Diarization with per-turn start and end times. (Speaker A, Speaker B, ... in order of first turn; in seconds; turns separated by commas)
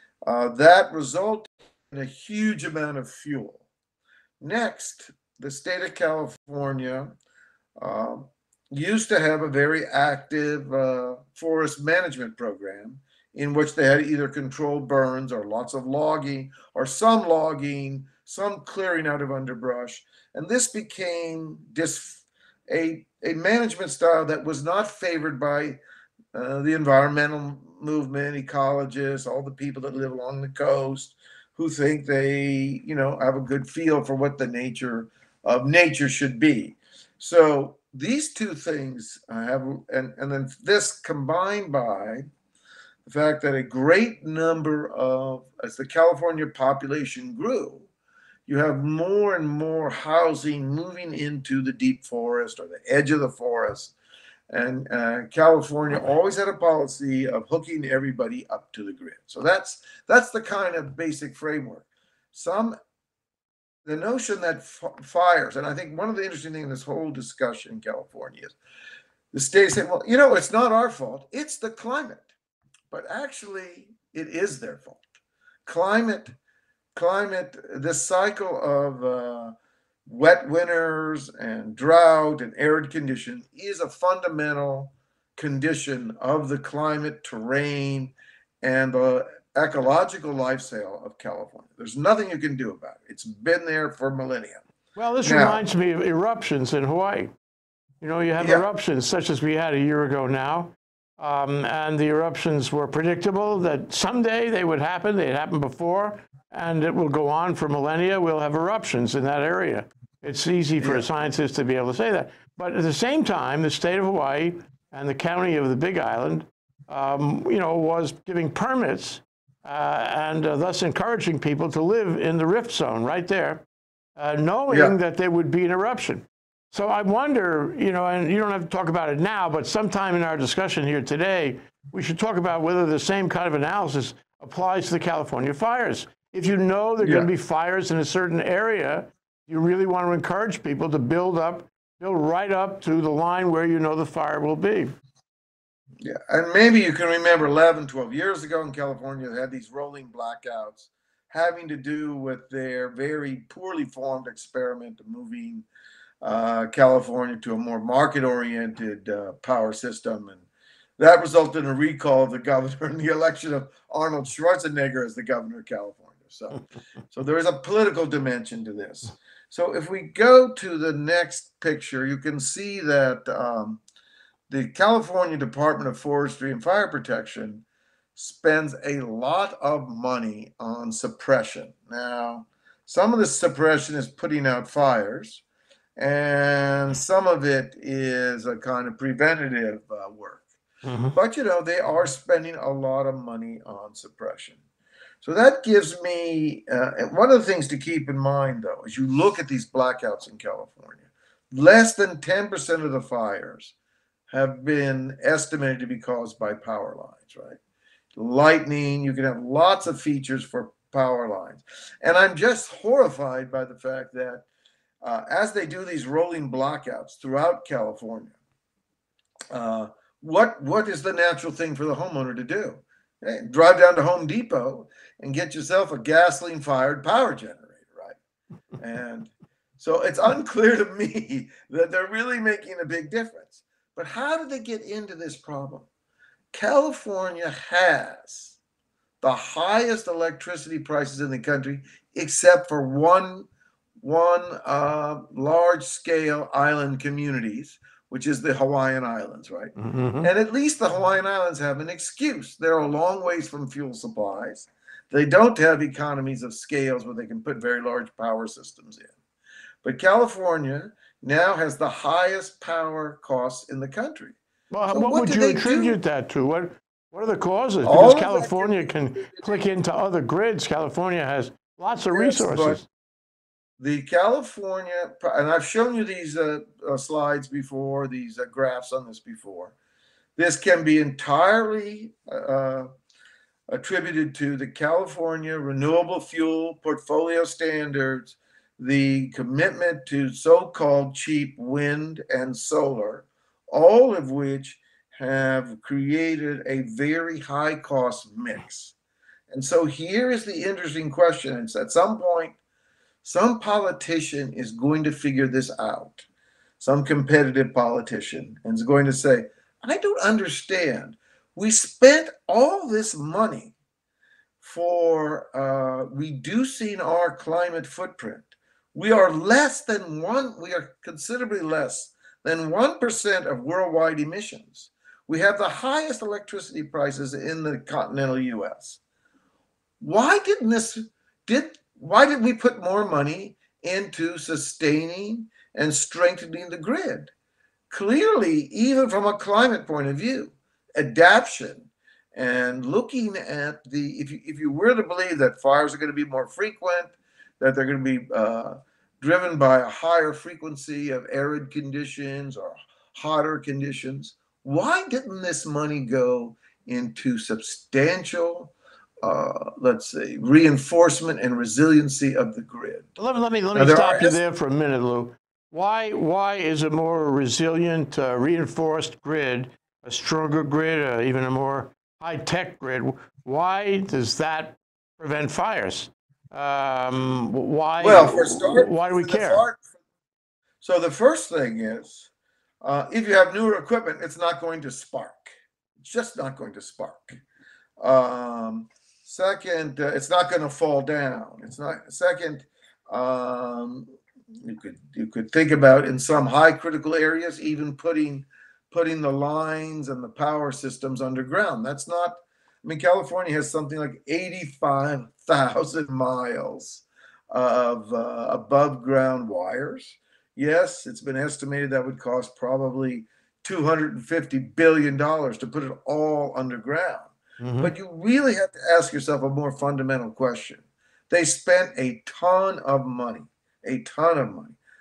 Speaker A: 0.2-3.6, Speaker A: 4.4-7.1, Speaker A: 7.8-25.8, Speaker A: 26.3-42.2, Speaker A: 43.0-47.9, Speaker A: 48.5-53.9, Speaker A: 54.5-62.8, Speaker A: 63.8-68.5, Speaker A: 69.3-72.3, Speaker A: 72.9-75.0, Speaker A: 75.7-76.3, Speaker A: 76.9-79.5, Speaker A: 80.0-94.6, Speaker B: 95.0-97.3, Speaker A: 95.2-95.6, Speaker B: 98.0-123.6, Speaker A: 110.8-111.0, Speaker B: 124.2-144.9, Speaker A: 124.7-124.9, Speaker A: 137.0-137.3, Speaker A: 146.0-155.6, Speaker A: 156.2-160.4, Speaker A: 161.0-173.8, Speaker A: 174.5-177.6, Speaker A: 178.2-185.4, Speaker A: 186.0-190.5, Speaker B: 190.8-191.2, Speaker A: 191.1-194.6, Speaker A: 195.2-203.8, Speaker A: 204.3-207.6, Speaker A: 208.2-214.5, Speaker A: 215.0-218.3, Speaker A: 219.5-228.2, Speaker A: 228.8-235.9, Speaker A: 236.5-238.6, Speaker A: 239.2-243.5, Speaker A: 244.0-259.1, Speaker B: 249.8-250.3, Speaker A: 259.8-264.4, Speaker B: 264.7-272.8, Speaker A: 264.9-266.0, Speaker A: 267.8-269.6, Speaker A: 272.1-272.8, Speaker A: 273.8-279.8, Speaker A: 280.4-282.9, Speaker A: 283.7-298.9, Speaker A: 299.5-302.6, Speaker A: 303.2-306.3, Speaker A: 306.8-313.8, Speaker A: 314.6-329.0, Speaker A: 330.0-337.3, Speaker A: 337.9-363.1, Speaker B: 363.2-379.6, Speaker A: 363.8-364.4, Speaker A: 378.0-379.8, Speaker A: 380.8-382.3, Speaker A: 382.8-387.4, Speaker A: 388.0-394.1, Speaker A: 394.6-424.8, Speaker B: 417.6-417.9